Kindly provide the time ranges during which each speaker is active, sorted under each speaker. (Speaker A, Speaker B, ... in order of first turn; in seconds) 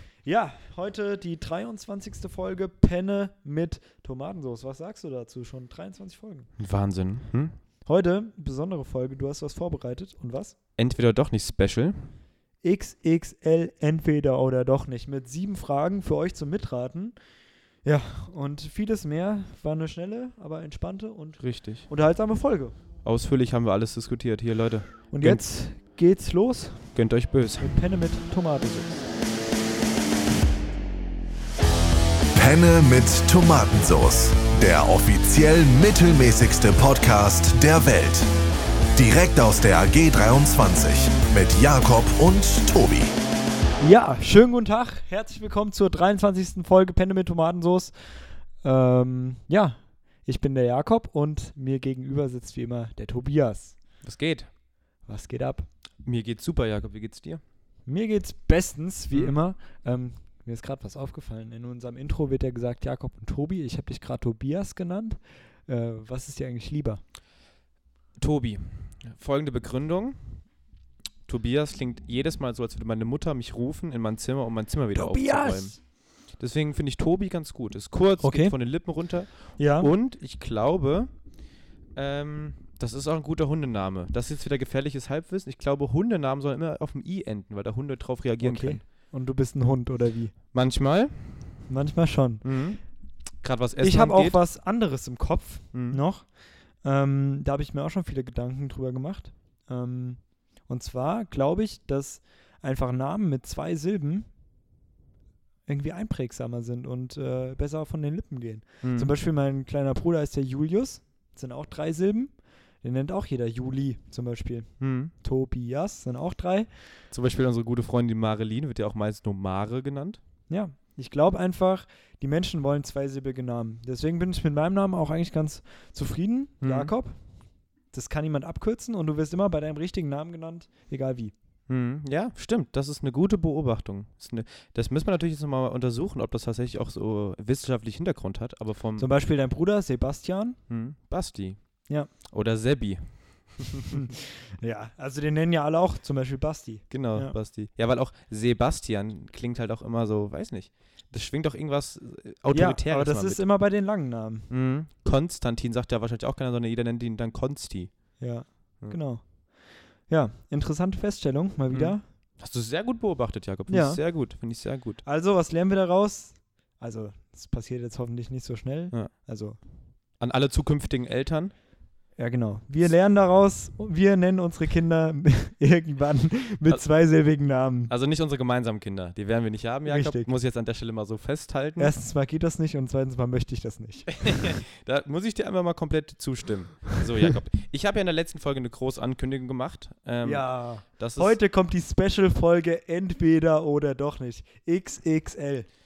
Speaker A: 0.2-6.5, 7.8-10.6, 12.6-17.1, 17.8-22.7, 25.1-27.0, 27.6-29.1, 43.8-53.8, 55.0-55.7, 57.9-67.0, 74.9-75.8, 78.2-78.5, 79.6-79.9, 88.4-90.4, 91.7-92.4, 93.8-104.3, 105.7-116.7, 120.5-127.2, 127.9-131.3, 139.0-140.6, 144.6-147.3, 152.5-154.5, 158.2-162.0, 163.7-164.0, 165.0-169.6, 172.2-177.9, 179.8-180.3, 181.8-184.5, 190.2-195.7
Speaker B: 6.6-7.5, 10.8-12.0, 21.4-21.9, 23.0-25.4, 26.9-27.8, 54.0-54.5, 56.0-57.4, 68.2-70.4, 71.3-81.1, 82.0-88.8, 90.5-91.5, 92.4-92.8, 93.4-94.4, 95.7-96.0, 108.8-109.1, 114.8-115.1, 117.1-120.2, 126.6-126.9, 131.7-139.1, 140.7-143.8, 146.9-153.4, 154.5-158.2, 161.7-165.0, 170.2-171.5, 177.9-181.9, 184.2-191.3
Speaker C: 32.3-38.3, 38.9-43.1